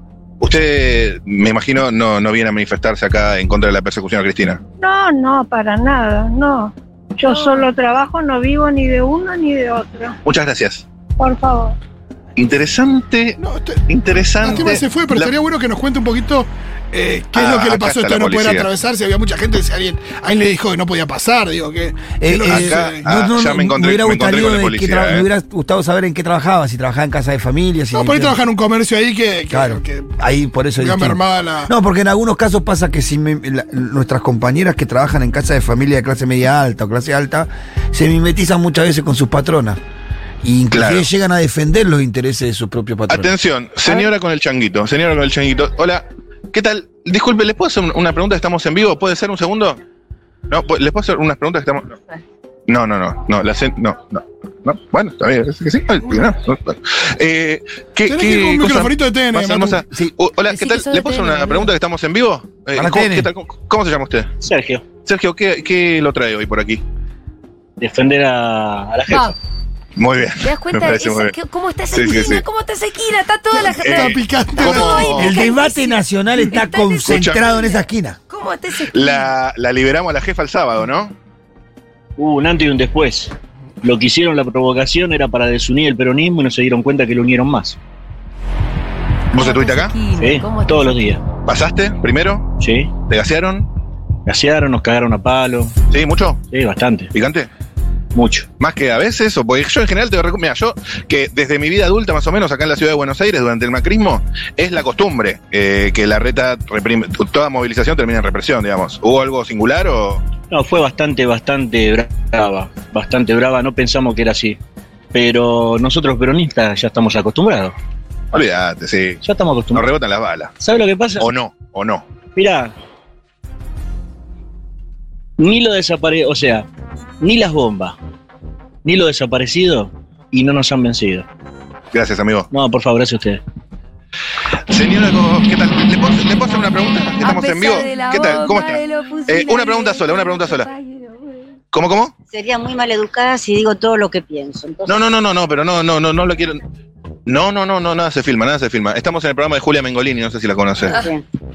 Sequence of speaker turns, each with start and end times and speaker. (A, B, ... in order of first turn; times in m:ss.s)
0:00.4-0:04.6 A
0:04.8-0:10.2 B
0:10.2-0:10.8 A
0:11.2-0:11.8 B
0:12.4-0:15.3 A
0:13.4-0:13.8 C
0:14.4-0:23.0 C
0:17.3-0:18.7 A
0:22.2-0:28.4 D
0:22.5-0:25.2 A
0:27.9-0:30.1 C
0:29.5-0:39.8 D
0:30.8-0:31.7 C
0:40.4-0:43.3 D
0:40.7-0:41.1 A
0:43.1-0:49.8 A
0:50.5-0:52.0 A
0:52.7-1:04.3 A
0:58.0-0:59.8 C
1:00.5-1:01.7 E
1:02.7-1:03.3 D
1:04.4-1:04.9 F
1:05.0-1:06.8 A
1:07.8-1:09.3 F
1:09.1-1:09.3 E
1:10.0-1:11.3 A
1:10.4-1:19.3 E
1:11.9-1:12.4 A
1:13.5-1:15.1 C
1:13.8-1:15.3 A
1:15.1-1:18.2 D
1:17.0-1:17.4 A
1:18.9-1:21.1 A
1:22.2-1:27.8 F
1:29.3-1:30.0 A
1:29.3-1:31.0 E
1:30.1-1:31.2 F
1:31.4-1:32.5 A
1:32.6-1:32.9 F
1:33.0-1:33.7 A
1:34.2-1:35.7 F
1:35.9-1:36.4 A
1:36.5-1:37.1 F
1:37.1-1:37.5 A
1:38.1-1:38.5 F
1:38.6-1:50.2 A
1:50.5-1:54.6 F
1:55.1-1:57.7 F
1:58.3-1:59.2 A
1:59.2-1:59.8 F
1:59.7-2:00.5 A
2:00.6-2:01.3 F
2:01.2-2:02.0 A
2:02.4-2:02.7 F
2:05.4-2:06.7 F
2:07.2-2:08.0 F
2:08.8-2:11.3 F
2:11.9-2:12.5 A
2:12.5-2:13.4 F
2:14.7-2:20.7 A
2:17.2-2:21.5 E
2:21.7-2:22.1 A
2:22.3-2:25.0 G
2:24.8-2:26.6 A
2:27.3-2:31.0 A
2:30.8-2:31.2 G